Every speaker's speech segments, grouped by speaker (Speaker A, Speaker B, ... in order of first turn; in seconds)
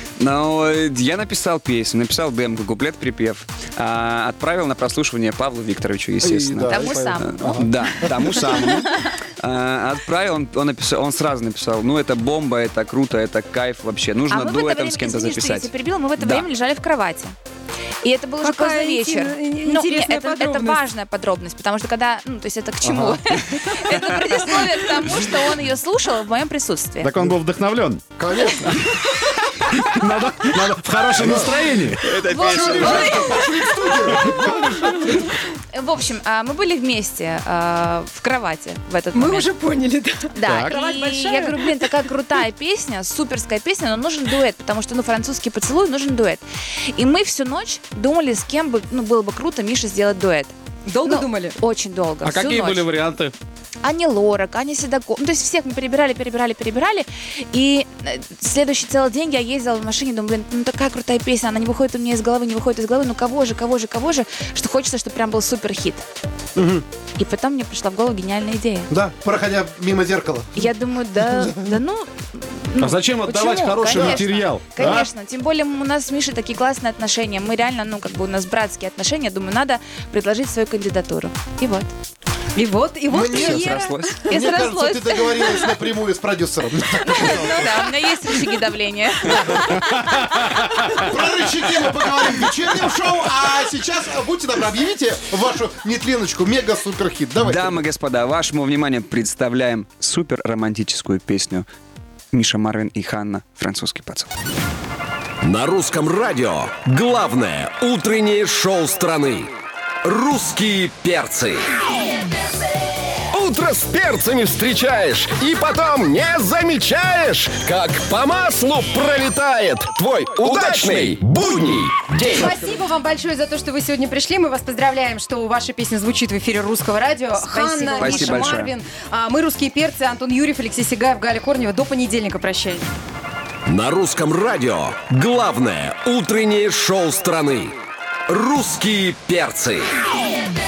Speaker A: 0.2-16.5, 23.8-24.8, 32.0-33.4, 83.2-84.2, 97.4-101.7, 102.3-104.3, 128.0-128.7
Speaker B: 6.2-8.9, 22.8-23.2, 28.2-29.0, 31.1-34.9, 66.6-66.8, 68.9-71.8, 73.9-74.3, 74.8-75.0, 83.1-87.9, 89.3-89.8, 90.9-97.8
Speaker C: 6.7-8.8, 14.3-17.4, 18.0-27.2, 32.2-34.4, 35.7-39.5, 40.3-46.4, 46.9-50.5, 51.0-52.9, 53.8-66.0, 67.2-68.9, 70.6-81.9, 84.3-85.8, 87.0-91.0, 127.4-128.5
Speaker D: 18.4-20.8, 39.1-42.0, 50.9-51.6, 82.5-84.2, 122.4-132.9
Speaker E: 27.0-28.0, 29.6-32.1, 34.2-35.1, 40.5-40.7, 52.2-53.3, 72.8-75.1, 89.8-90.8
Speaker F: 105.4-109.5, 110.0-111.7, 113.3-122.6, 133.7-137.8, 138.3-139.9